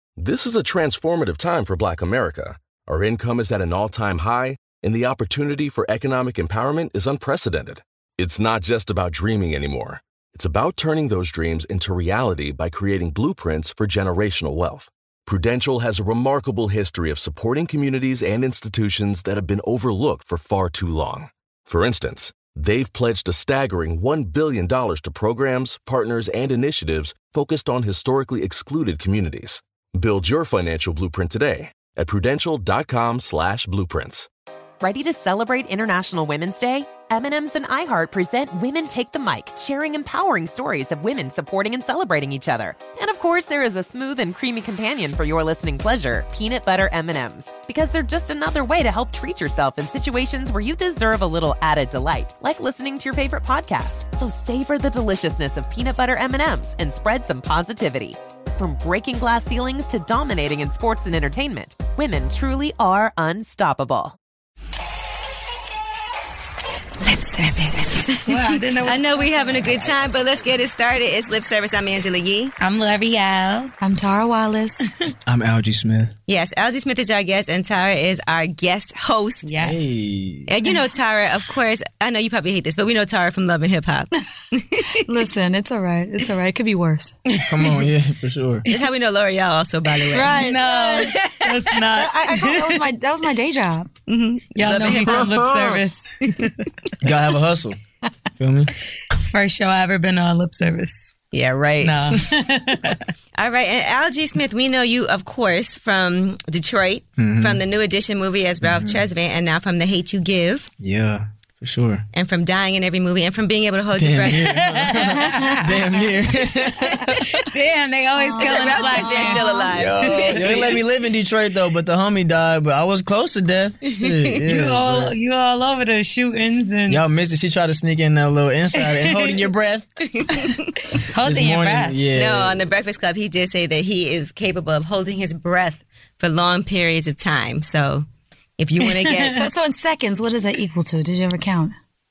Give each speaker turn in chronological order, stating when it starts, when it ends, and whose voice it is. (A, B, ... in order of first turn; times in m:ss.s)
0:00.2-0:34.3 A
0:34.8-1:04.2 B
1:07.0-1:08.2 C
1:08.3-1:09.7 D
1:08.8-1:12.5 E
1:12.6-1:13.7 D
1:13.8-1:14.9 C
1:15.3-1:16.1 F
1:16.3-1:19.5 E
1:19.5-1:19.8 D
1:19.6-1:20.5 F
1:20.5-1:24.9 E
1:25.0-1:27.2 C
1:27.3-1:27.7 D
1:27.4-1:28.7 F
1:28.7-1:30.4 E
1:30.1-1:31.2 C
1:30.2-1:32.8 D
1:31.0-1:31.6 E
1:32.0-1:33.9 C
1:34.1-1:35.6 E
1:34.5-1:36.5 D
1:34.9-1:35.8 F
1:37.0-1:37.8 F
1:38.4-1:38.7 F
1:39.1-1:41.0 D
1:41.3-1:42.2 E
1:41.8-1:43.0 D
1:43.4-1:50.7 E
1:47.2-1:47.6 F
1:48.6-1:49.0 F
1:50.8-1:52.0 F
1:52.1-1:55.1 E
1:54.0-1:57.4 F
1:54.4-1:55.7 D
1:57.1-1:57.4 E
1:57.4-1:59.7 D
1:58.2-1:59.7 C
1:58.4-2:00.8 E
1:59.7-2:05.2 F
2:03.9-2:04.4 E
2:04.5-2:07.0 D
2:06.9-2:10.6 F
2:08.8-2:09.4 D
2:10.1-2:10.9 E
2:11.1-2:12.0 D
2:11.2-2:12.6 F
2:12.1-2:18.1 E
2:18.6-2:19.5 E
2:18.8-2:19.3 D
2:19.3-2:21.8 C